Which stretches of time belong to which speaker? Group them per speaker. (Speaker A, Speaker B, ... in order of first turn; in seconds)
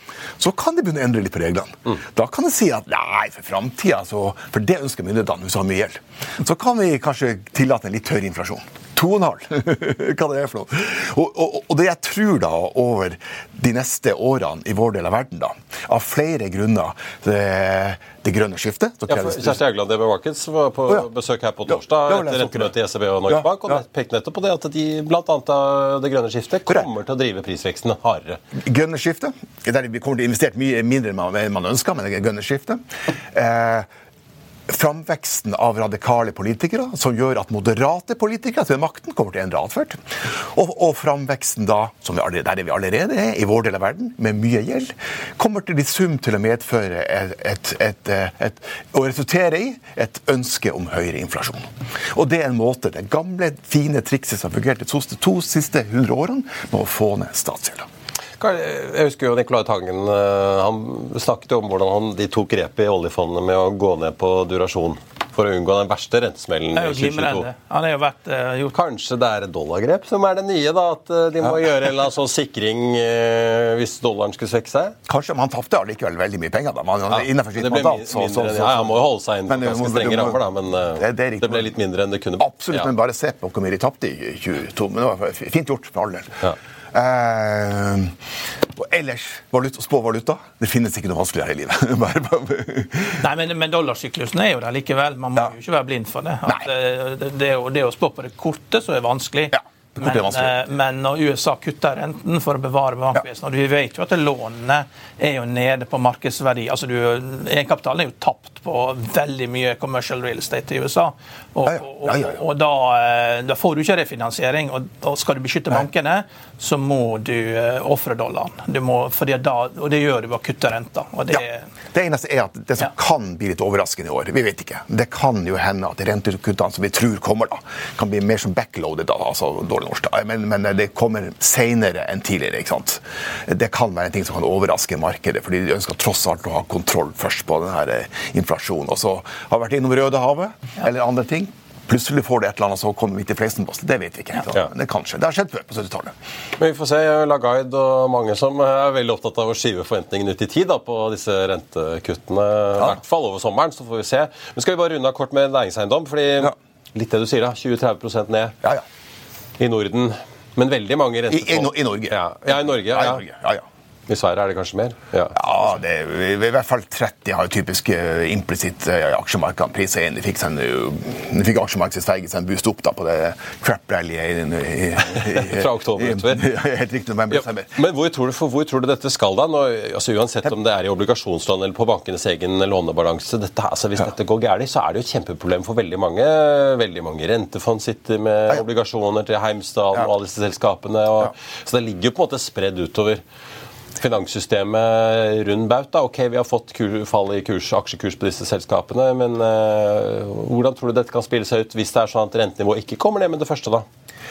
Speaker A: 0.4-19.6, 21.7-22.7, 23.3-23.8, 28.6-33.9, 34.7-57.9, 75.1-80.4, 81.0-81.7, 82.4-86.4, 86.9-88.2, 88.7-93.2, 99.5-100.6, 111.7-112.4, 121.3-146.1, 161.3-163.6, 165.3-177.7
Speaker B: 19.1-28.4, 58.4-67.5, 68.7-75.0, 77.1-82.9, 146.6-158.6, 159.6-163.2, 164.1-165.4, 175.2-176.5, 177.3-193.2, 194.0-203.9
Speaker C: 66.8-68.7, 93.2-121.7